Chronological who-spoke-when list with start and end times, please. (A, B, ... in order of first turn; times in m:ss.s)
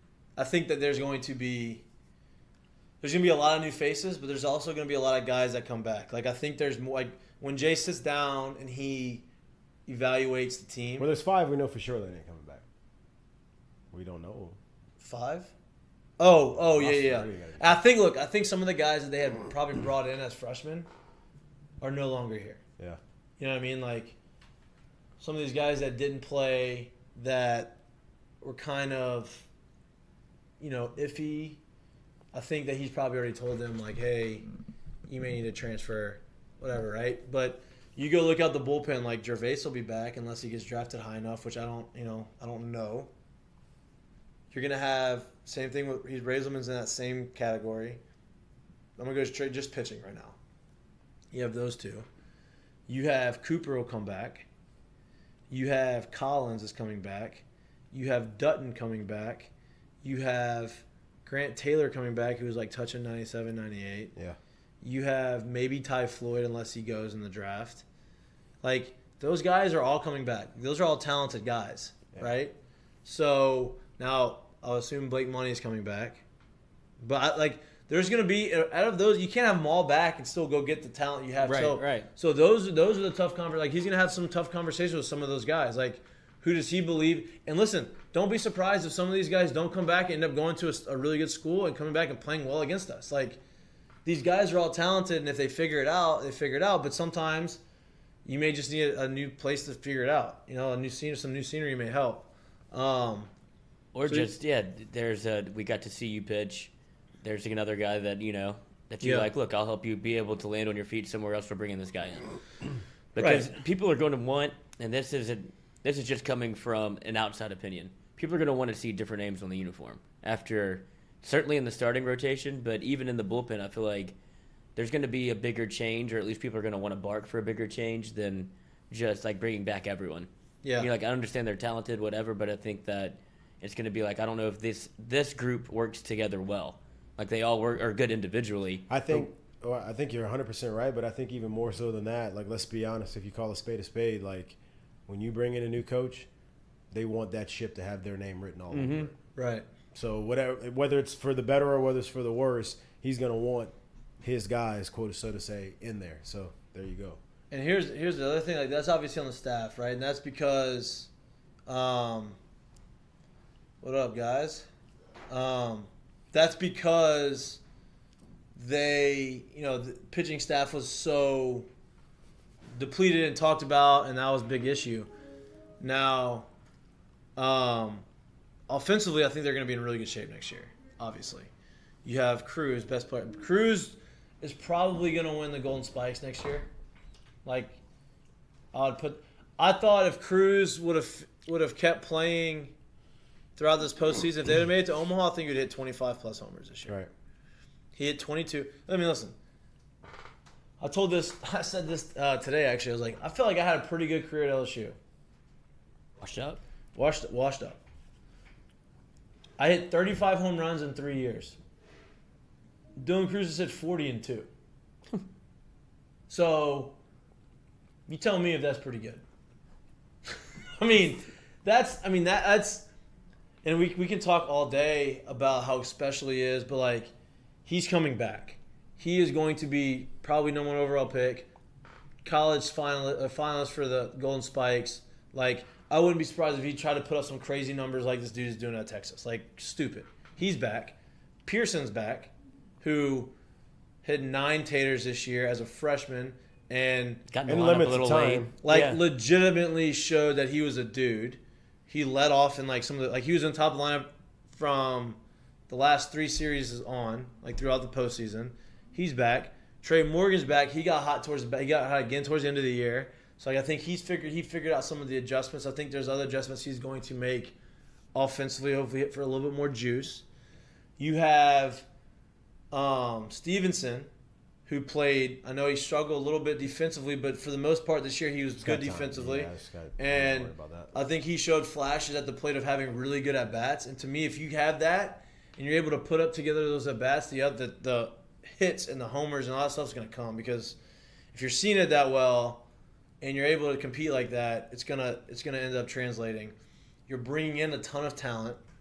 0:00.4-0:01.8 A
0:03.0-0:09.2 A
0:09.8-0:11.1 A
0:11.0-0:12.6 B
0:13.9-0:14.6 B
0:15.0-0:15.5 A
0:16.2-0:20.9 A
0:16.3-0:17.8 B
0:21.8-0:22.6 A
0:23.4-0:24.2 A
0:25.2-0:27.8 A
0:28.4-0:29.5 A
0:30.6-0:31.6 A
0:32.3-0:34.4 A
0:35.1-0:43.1 A
0:44.5-0:48.0 A
0:49.0-0:50.4 A
0:51.3-0:52.1 A
0:52.9-0:54.4 A
0:55.5-0:59.5 A
1:00.0-1:04.1 A
1:04.8-1:07.8 A
1:08.6-1:16.2 A
1:17.0-1:33.4 A
1:21.4-1:22.1 C
1:34.0-1:37.6 A
1:38.2-1:43.3 A
1:43.9-1:46.7 C
1:44.0-1:44.3 A
1:47.2-1:52.4 C
1:49.0-1:49.3 A
1:53.1-2:04.1 C
1:53.2-1:53.5 A
2:04.8-2:19.3 C
2:10.6-2:10.9 A
2:18.9-2:26.3 B
2:26.9-2:29.2 B
2:28.7-2:29.1 C
2:29.4-2:29.6 A
2:29.9-2:37.2 B
2:37.5-2:41.1 A
2:41.7-2:42.4 A
2:43.8-2:44.7 A
2:45.3-2:47.6 A
2:48.5-2:51.7 A
2:52.8-2:55.1 A
2:55.8-2:56.5 A
2:57.4-2:58.0 A
2:58.7-3:01.5 A
3:02.0-3:06.7 A
3:07.4-3:07.8 A
3:08.7-3:12.7 A
3:13.6-3:17.0 A
3:17.9-3:19.3 A
3:20.8-3:25.0 A
3:26.2-3:26.6 C
3:26.9-3:27.8 A
3:29.6-3:31.6 A
3:33.0-3:34.5 A
3:36.3-3:36.9 A
3:38.1-3:39.2 A
3:40.3-3:42.9 A
3:43.6-3:47.1 A
3:47.6-3:51.5 A
3:52.2-4:03.3 A
4:04.0-4:07.2 A
4:07.3-4:09.0 C
4:07.4-4:08.5 B
4:08.6-4:27.6 A
4:28.1-4:30.2 A
4:31.0-4:31.9 A
4:32.7-4:34.1 A
4:34.7-4:50.8 A
4:38.6-4:40.9 B
4:51.3-4:52.6 A
4:53.2-4:56.5 A
4:57.1-4:58.6 A